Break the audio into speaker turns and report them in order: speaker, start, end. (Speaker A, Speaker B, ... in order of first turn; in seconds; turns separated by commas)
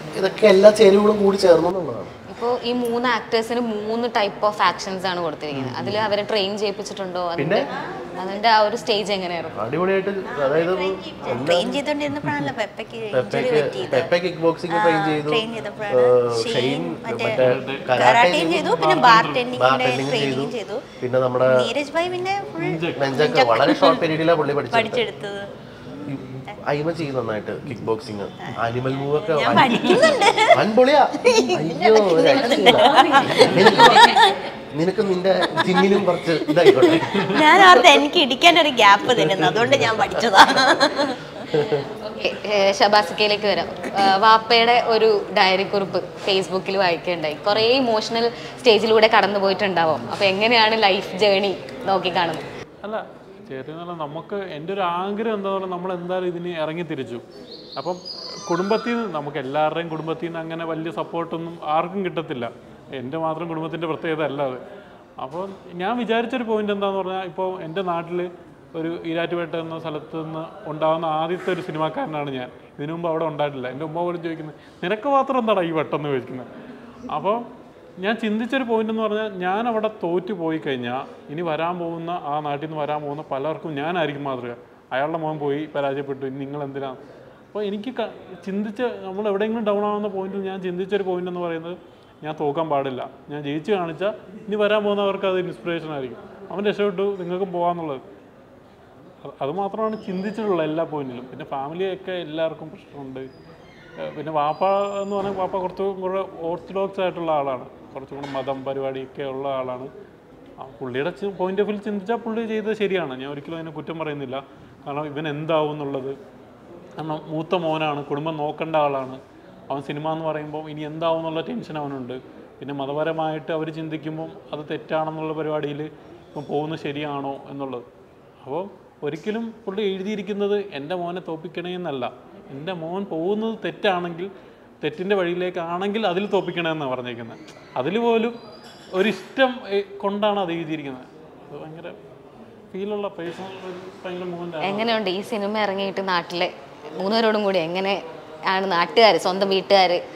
Speaker A: 0.2-2.1, Speaker B: 2.3-7.7, Speaker C: 5.5-6.0, Speaker A: 7.4-7.7, Speaker B: 8.2-9.6, Speaker A: 9.6-11.8, Speaker D: 10.3-14.1, Speaker C: 12.2-12.5, Speaker A: 13.1-18.7, Speaker D: 14.7-17.4, Speaker C: 17.3-18.1, Speaker D: 18.0-20.9, Speaker C: 18.7-19.5, Speaker A: 19.5-21.7, Speaker D: 21.5-24.0, Speaker C: 22.6-23.1, Speaker A: 22.9-25.0, Speaker D: 24.7-25.5, Speaker A: 26.1-34.1, Speaker C: 27.7-27.9, Speaker D: 29.3-30.6, Speaker C: 29.6-30.2, Speaker D: 31.2-34.4, Speaker B: 32.9-34.1, Speaker C: 33.4-33.9, Speaker A: 34.8-37.3, Speaker D: 36.5-41.4, Speaker C: 37.2-37.4, Speaker A: 39.7-40.2, Speaker A: 41.5-41.8, Speaker B: 42.0-52.4, Speaker C: 52.8-57.2, Speaker C: 57.8-64.6, Speaker C: 65.2-76.5, Speaker C: 77.1-77.4, Speaker C: 78.0-87.0, Speaker C: 87.5-98.0, Speaker C: 99.2-103.3, Speaker C: 104.0-109.9, Speaker C: 110.6-116.2, Speaker C: 117.0-127.8, Speaker C: 128.4-134.3, Speaker C: 134.8-138.3, Speaker C: 138.9-141.9, Speaker C: 142.7-144.9, Speaker B: 144.6-150.0